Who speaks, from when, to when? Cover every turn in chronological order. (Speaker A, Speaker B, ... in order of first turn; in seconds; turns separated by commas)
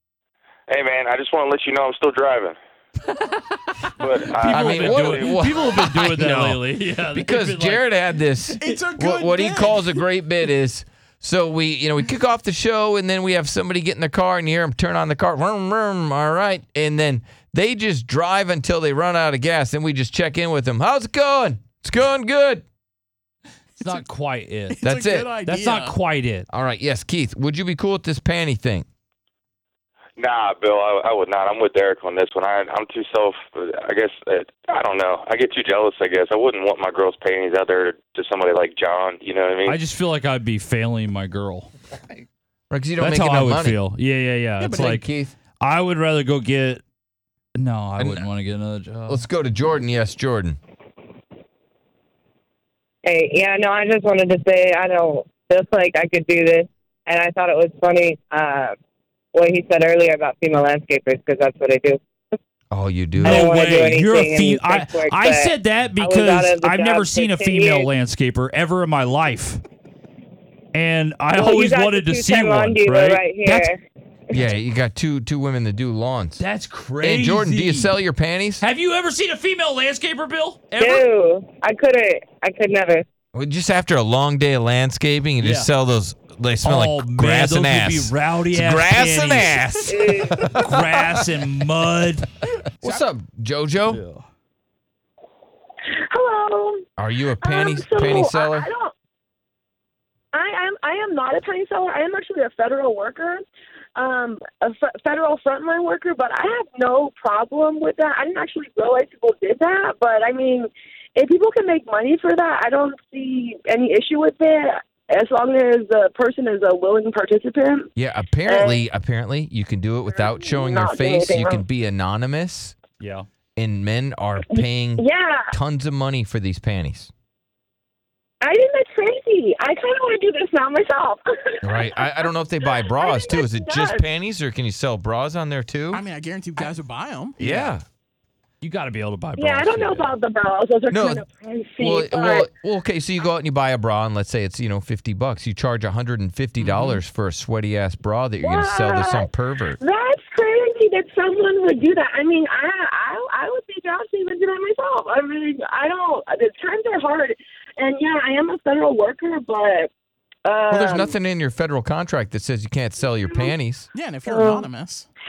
Speaker A: 0.7-2.5, Speaker A: 4.0-5.4, Speaker B: 4.3-7.8, Speaker C: 4.5-22.6, Speaker D: 8.5-10.0, Speaker B: 23.8-24.8, Speaker D: 24.7-26.0, Speaker C: 24.8-25.3, Speaker B: 25.4-26.5, Speaker C: 26.5-28.9, Speaker A: 30.2-39.8, Speaker B: 39.6-41.7, Speaker C: 42.7-43.8, Speaker B: 43.0-45.0, Speaker D: 44.6-44.9, Speaker C: 44.8-45.3, Speaker B: 45.6-46.8, Speaker B: 47.5-49.2, Speaker C: 48.0-48.2, Speaker C: 49.1-50.6, Speaker E: 53.0-58.7, Speaker E: 59.3-62.0, Speaker C: 62.7-63.9, Speaker B: 63.2-69.6, Speaker E: 63.2-67.9, Speaker B: 70.7-73.7, Speaker E: 71.3-73.8, Speaker C: 74.3-76.4, Speaker B: 76.4-77.9, Speaker C: 77.0-78.6, Speaker B: 78.6-81.1, Speaker E: 80.8-83.0, Speaker C: 83.3-91.2, Speaker B: 85.4-85.7, Speaker B: 86.6-92.3, Speaker E: 89.9-90.3, Speaker C: 92.8-94.0, Speaker B: 93.9-94.2, Speaker F: 95.9-96.8, Speaker C: 97.0-98.7, Speaker F: 97.4-98.9, Speaker F: 100.3-103.4, Speaker F: 104.0-117.9, Speaker C: 118.0-122.7, Speaker F: 118.5-118.8, Speaker F: 120.1-121.6, Speaker B: 123.0-123.3, Speaker C: 123.5-127.1, Speaker F: 124.5-125.5, Speaker F: 128.4-134.0, Speaker C: 131.6-136.0, Speaker D: 135.9-137.4, Speaker B: 137.4-137.7, Speaker C: 137.4-137.8, Speaker B: 138.6-140.1, Speaker F: 139.3-142.5, Speaker C: 140.9-141.2, Speaker C: 141.8-149.8, Speaker D: 146.6-147.0, Speaker F: 148.4-159.9, Speaker F: 160.4-161.1, Speaker C: 160.7-163.9, Speaker F: 163.3-163.5, Speaker D: 163.9-165.1, Speaker F: 164.3-164.6